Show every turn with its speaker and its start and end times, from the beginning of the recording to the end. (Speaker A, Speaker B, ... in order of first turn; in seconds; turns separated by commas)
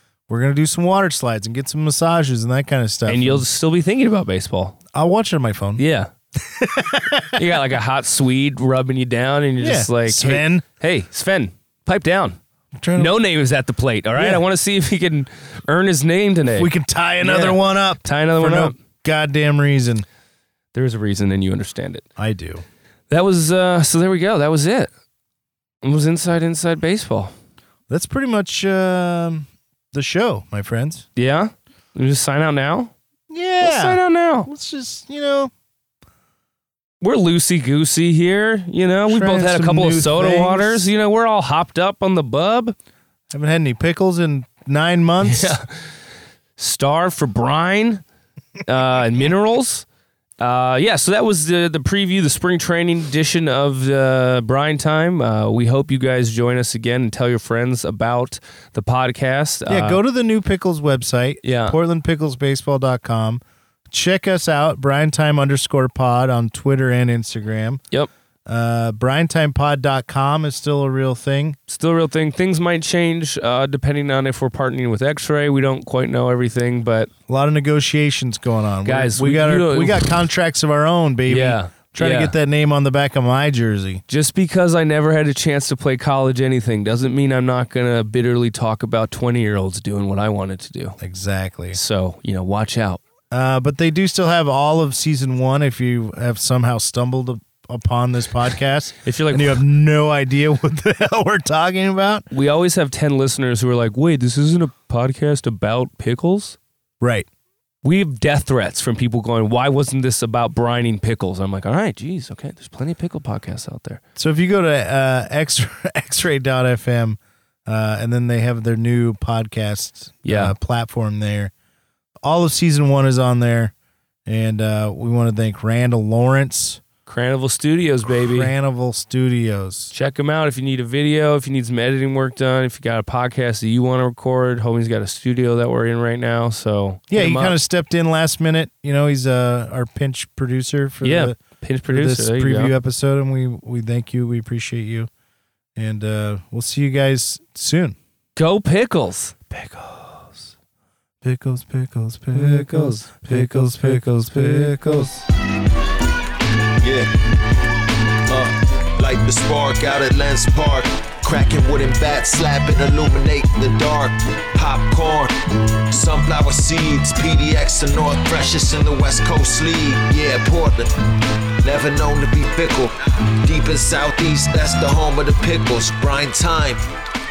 Speaker A: 0.3-3.5, Speaker B: 3.1-4.8, Speaker A: 4.9-5.8, Speaker B: 5.8-6.1, Speaker A: 6.4-7.4, Speaker B: 7.3-12.4, Speaker A: 9.6-10.6, Speaker A: 12.8-13.2, Speaker B: 12.9-18.8, Speaker A: 14.2-14.4, Speaker A: 16.5-20.0, Speaker B: 20.7-22.1, Speaker A: 22.2-22.6, Speaker B: 23.1-24.9, Speaker B: 25.8-27.3, Speaker A: 27.9-31.0, Speaker B: 31.1-32.9, Speaker A: 33.3-35.5, Speaker B: 33.6-34.5, Speaker B: 37.0-42.8, Speaker A: 39.1-40.9, Speaker A: 43.3-45.6, Speaker B: 45.2-45.9, Speaker B: 46.6-48.0, Speaker B: 48.6-49.9, Speaker B: 50.4-60.0, Speaker A: 59.7-67.8, Speaker B: 61.4-61.8, Speaker A: 68.5-71.6, Speaker B: 71.7-77.1, Speaker A: 77.3-84.0, Speaker B: 78.8-80.1, Speaker B: 81.3-82.3, Speaker B: 84.1-91.0, Speaker A: 91.0-91.8, Speaker B: 91.7-93.0, Speaker A: 93.3-102.2, Speaker B: 99.0-99.6, Speaker B: 102.3-106.6, Speaker A: 107.0-107.3, Speaker B: 107.8-114.0, Speaker A: 114.2-121.5, Speaker B: 120.2-120.5, Speaker A: 122.2-123.7, Speaker A: 124.2-126.8, Speaker B: 127.1-128.5, Speaker A: 128.2-129.9, Speaker B: 129.9-137.6, Speaker A: 137.1-145.1, Speaker B: 141.0-142.7, Speaker A: 145.8-147.9, Speaker B: 148.3-149.3, Speaker A: 149.5-150.5, Speaker A: 151.2-155.1, Speaker B: 152.3-155.2, Speaker C: 156.8-157.1, Speaker C: 158.3-165.3, Speaker C: 165.9-170.9, Speaker C: 171.6-176.8